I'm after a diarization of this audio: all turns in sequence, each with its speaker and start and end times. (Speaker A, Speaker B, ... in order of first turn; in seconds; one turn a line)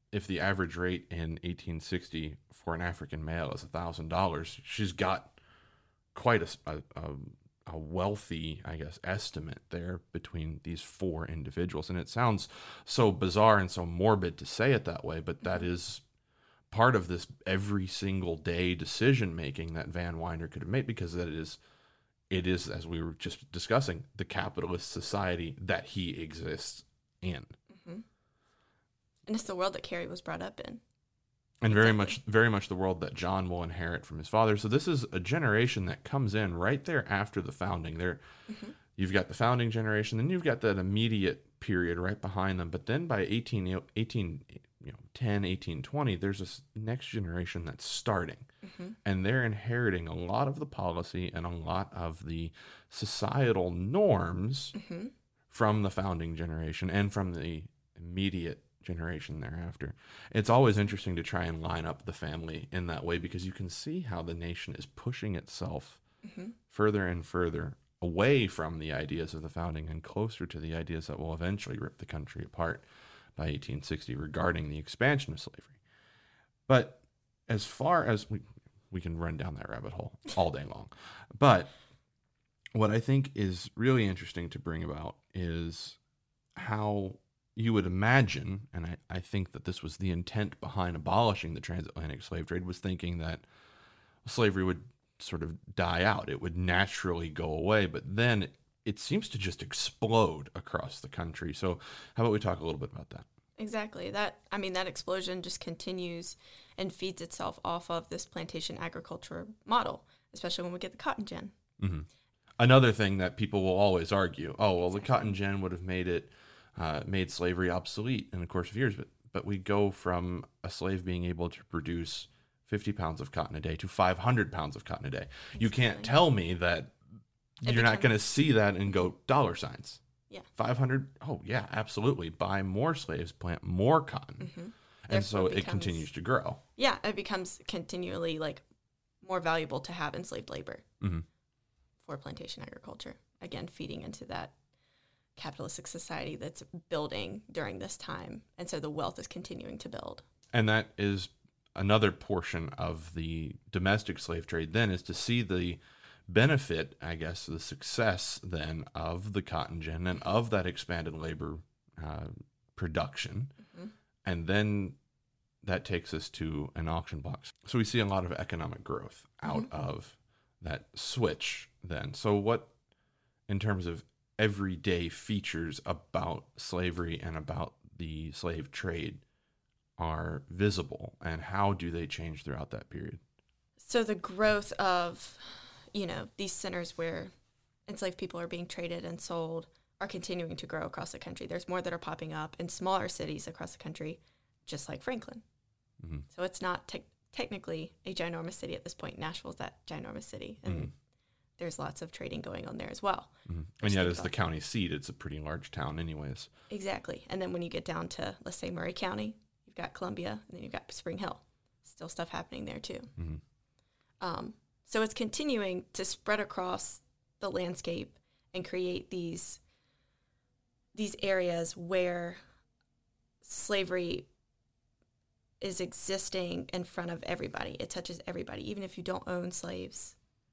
Speaker A: 0.1-5.4
Speaker A: 6.1-16.0
Speaker A: 16.7-21.6
Speaker A: 22.3-27.5
Speaker B: 27.7-28.1
Speaker B: 29.3-30.8
Speaker A: 31.6-38.2
Speaker B: 31.7-32.1
Speaker B: 38.5-38.8
Speaker A: 39.0-48.5
Speaker B: 48.6-49.0
Speaker A: 49.0-54.8
Speaker B: 54.8-55.1
Speaker A: 55.5-66.0
Speaker B: 66.2-66.5
Speaker A: 66.7-75.8
Speaker A: 76.7-81.7
Speaker A: 82.8-86.0
Speaker A: 86.6-93.4
Speaker A: 94.2-103.2
Speaker B: 103.6-111.5
Speaker A: 111.8-112.1
Speaker A: 112.6-127.0
Speaker B: 114.8-115.4
Speaker B: 125.6-126.1
Speaker A: 127.6-130.0
Speaker B: 127.6-128.2
Speaker A: 130.6-134.5
Speaker B: 134.4-136.0
Speaker A: 135.1-136.6
Speaker B: 136.8-138.6
Speaker B: 139.2-140.8
Speaker A: 141.0-141.2
Speaker B: 142.0-144.5
Speaker B: 145.4-150.2
Speaker A: 150.5-163.5
Speaker A: 164.2-165.0
Speaker A: 165.6-172.7
Speaker B: 169.4-169.7
Speaker A: 173.5-179.2
Speaker A: 180.0-183.2
Speaker B: 183.8-187.3
Speaker B: 187.9-195.4
Speaker A: 196.0-196.2
Speaker B: 196.3-200.9
Speaker A: 200.6-200.9
Speaker B: 201.6-204.3
Speaker A: 203.5-206.5
Speaker B: 206.7-213.1
Speaker B: 214.2-219.6
Speaker B: 220.9-222.4
Speaker B: 223.4-224.3
Speaker B: 225.6-230.2